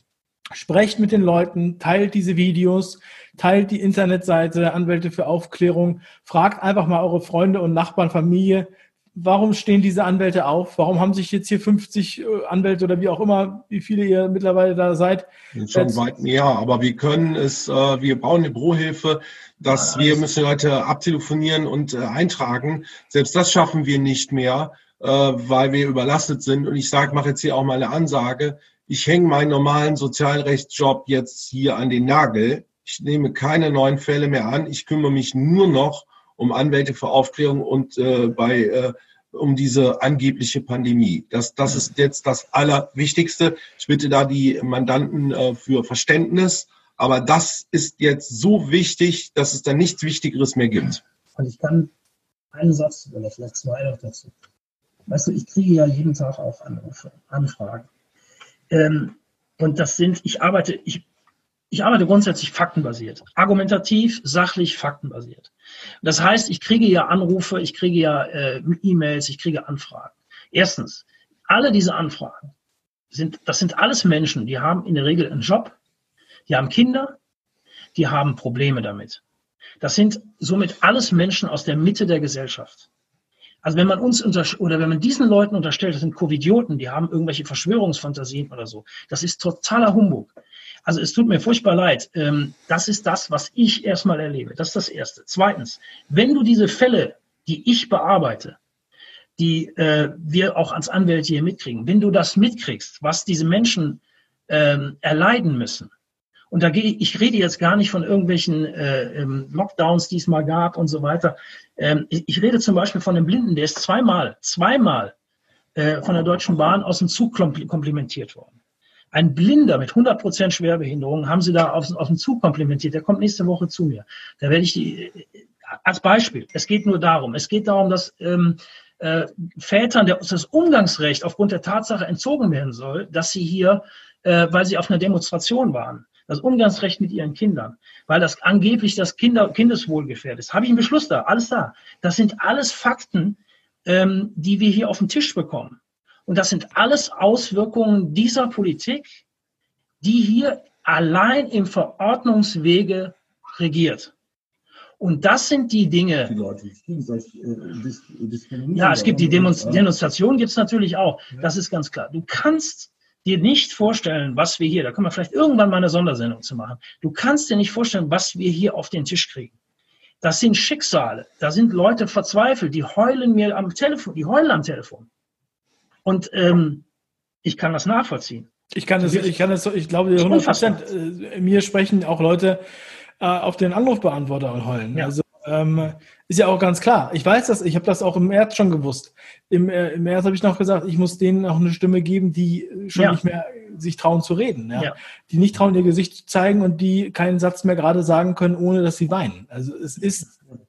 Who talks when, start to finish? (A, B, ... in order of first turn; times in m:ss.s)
0:00.6-0:16.0 A
0:15.6-0:51.0 B
0:19.7-0:20.3 C
0:51.4-0:51.9 C
0:52.5-0:54.3 C
0:55.1-0:57.9 C
0:58.7-1:01.0 C
1:01.7-1:05.5 C
1:06.0-1:12.5 C
1:13.1-1:15.8 C
1:16.5-1:17.2 C
1:18.0-1:19.2 C
1:19.8-1:22.9 C
1:23.6-1:30.3 C
1:30.9-1:38.6 C
1:39.4-1:45.9 C
1:46.5-1:55.2 C
1:55.8-1:58.6 C
1:59.1-2:29.2 C
2:30.0-2:34.1 C
2:35.0-2:36.4 C
2:36.3-2:39.9 B
2:38.7-2:49.5 C
2:50.2-2:55.1 C
2:56.0-2:56.8 C
2:57.4-2:58.5 C
2:58.8-3:02.6 A
2:59.0-2:59.4 C
3:00.2-3:00.8 C
3:03.2-3:20.4 A